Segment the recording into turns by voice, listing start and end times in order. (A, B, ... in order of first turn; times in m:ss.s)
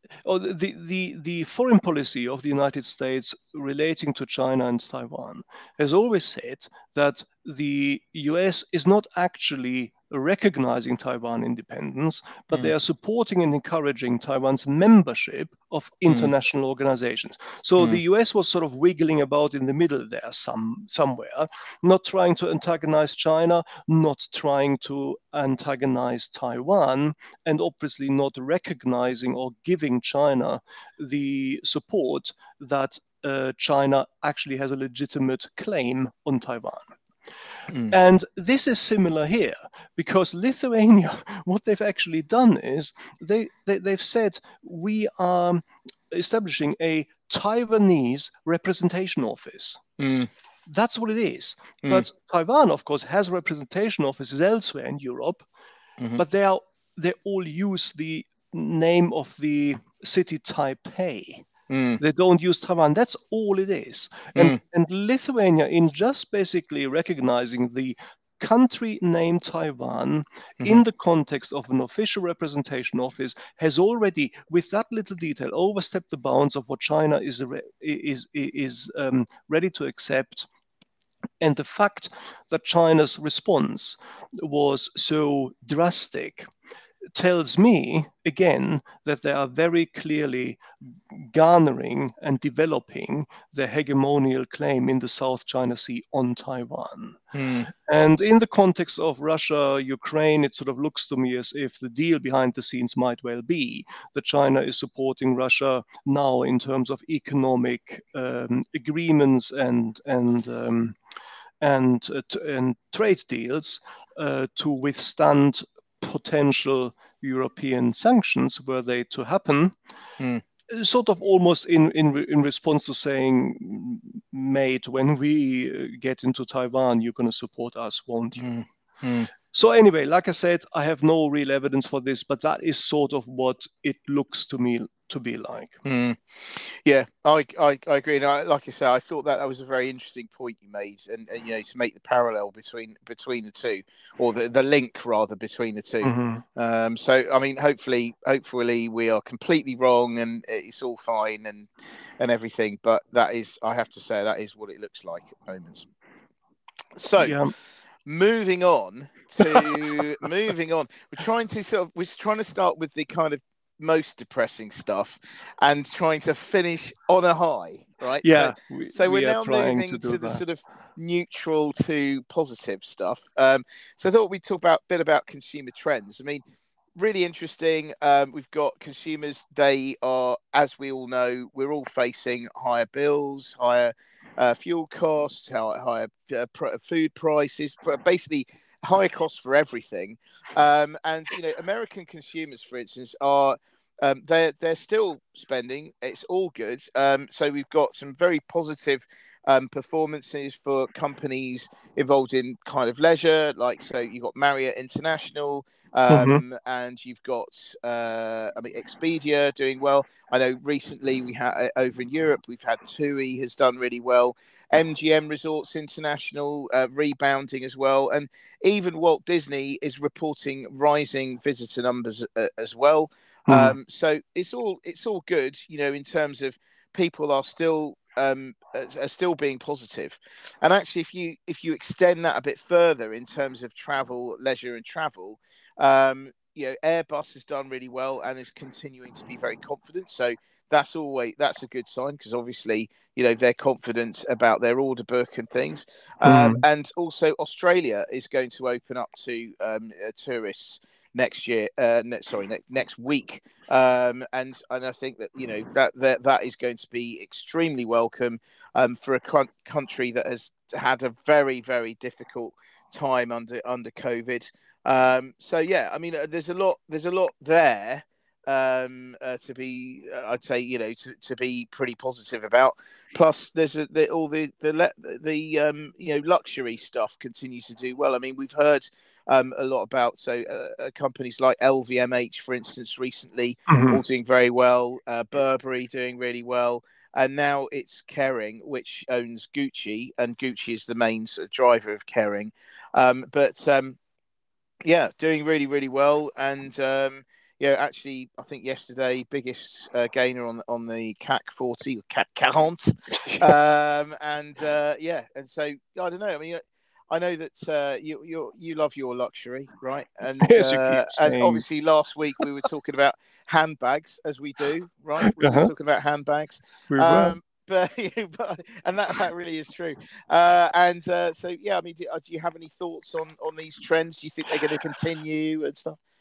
0:00.2-0:36.9 A
0:16.1-0:16.3 B
0:37.7-0:37.9 B
0:37.9-0:49.8 A
0:50.0-0:50.3 B
0:50.6-0:55.4 A
0:56.2-1:01.5 A
1:01.7-1:02.0 B
1:02.0-1:20.5 A
1:21.4-1:26.5 A
1:27.1-1:51.0 A
1:37.3-1:37.7 B
1:51.6-1:59.8 A
2:00.7-2:08.5 A
2:08.4-2:09.3 B
2:09.5-2:15.8 A
2:15.8-2:31.7 B
2:26.0-2:26.4 A
2:32.2-2:35.9 B
2:37.0-2:37.4 B
2:37.2-2:37.5 A
2:38.0-2:56.4 B
2:39.4-2:39.8 A
2:48.2-2:50.4 A
2:57.0-4:54.0 B
3:26.1-3:26.4 A
3:43.5-3:43.7 A
4:06.2-4:06.6 A
4:43.7-4:44.0 A
4:54.8-5:26.0 B
5:03.2-5:03.5 A
5:10.4-5:11.6 A
5:15.2-5:15.7 A
5:16.9-5:17.3 A